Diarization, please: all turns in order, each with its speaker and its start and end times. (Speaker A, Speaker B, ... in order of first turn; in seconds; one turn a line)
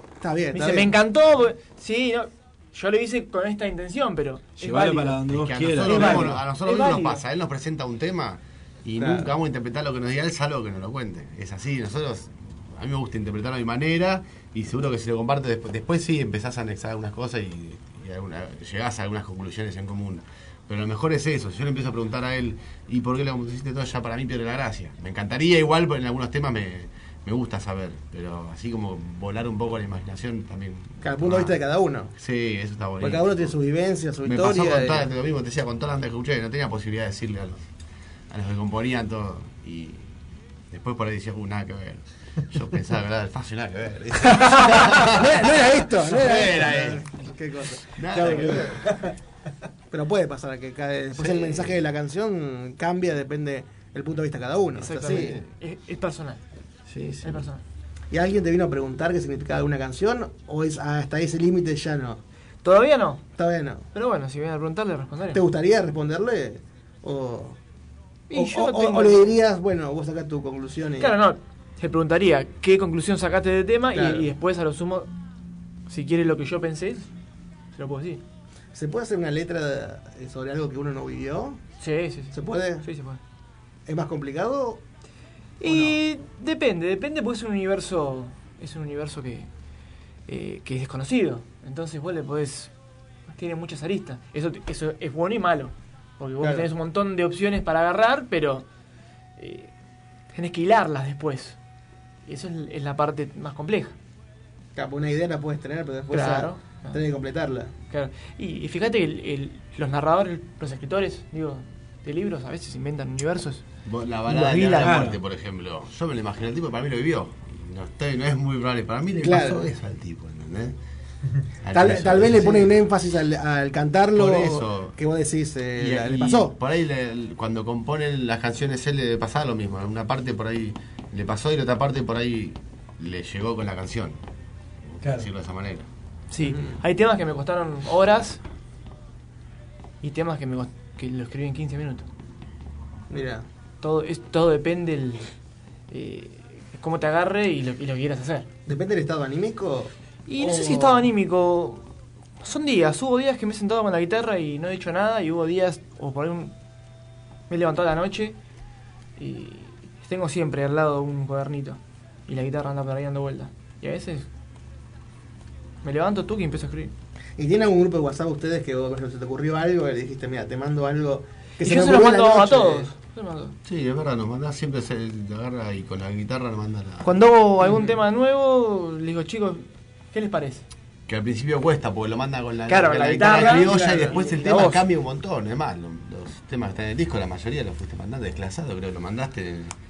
Speaker A: 0.2-0.9
Speaker B: 0.5-5.2
Speaker C: 4.6-6.5
Speaker D: 5.3-31.6
Speaker B: 5.8-7.2
Speaker A: 9.0-9.3
Speaker A: 31.0-32.1
Speaker D: 32.2-33.5
Speaker A: 33.0-35.1
Speaker D: 34.2-37.6
Speaker D: 38.3-40.1
Speaker D: 40.7-47.1
Speaker A: 45.1-48.8
Speaker D: 48.0-48.9
Speaker A: 49.9-55.4
Speaker D: 51.2-51.8
Speaker B: 54.8-56.4
Speaker B: 57.2-57.6
Speaker A: 58.1-62.2
Speaker B: 62.6-63.2
Speaker A: 63.4-63.9
Speaker B: 63.9-65.4
Speaker A: 65.3-67.6
Speaker B: 68.3-69.3
Speaker A: 68.3-71.1
Speaker B: 71.0-75.1
Speaker A: 74.0-74.2
Speaker B: 75.9-77.1
Speaker B: 77.8-78.2
Speaker A: 78.7-81.6
Speaker B: 81.8-83.2
Speaker A: 82.3-82.8
Speaker A: 83.9-84.8
Speaker B: 85.6-89.5
Speaker A: 85.7-85.9
Speaker B: 90.3-92.7
Speaker B: 93.3-98.7
Speaker B: 99.4-99.7
Speaker B: 100.3-101.6
Speaker B: 102.3-104.0
Speaker A: 104.8-107.7
Speaker B: 106.1-107.0
Speaker B: 107.9-113.6
Speaker D: 113.8-120.8
Speaker B: 114.3-115.0
Speaker C: 114.8-115.2
Speaker A: 119.2-119.7
Speaker D: 121.6-122.8
Speaker A: 121.7-126.5
Speaker D: 124.1-125.0
Speaker D: 125.8-134.2
Speaker D: 134.9-135.9
Speaker C: 135.0-135.3
Speaker B: 136.3-138.4
Speaker B: 140.0-142.1
Speaker A: 143.1-143.5
Speaker B: 143.8-145.3
Speaker B: 145.9-148.5
Speaker A: 148.7-151.1
Speaker B: 150.3-156.5
Speaker B: 157.5-158.4
Speaker B: 159.2-164.3
Speaker B: 165.8-166.9
Speaker A: 167.4-172.9
Speaker B: 171.6-173.6
Speaker D: 173.6-177.9
Speaker B: 177.0-180.6
Speaker D: 181.1-189.7
Speaker B: 182.7-184.8
Speaker A: 183.5-184.0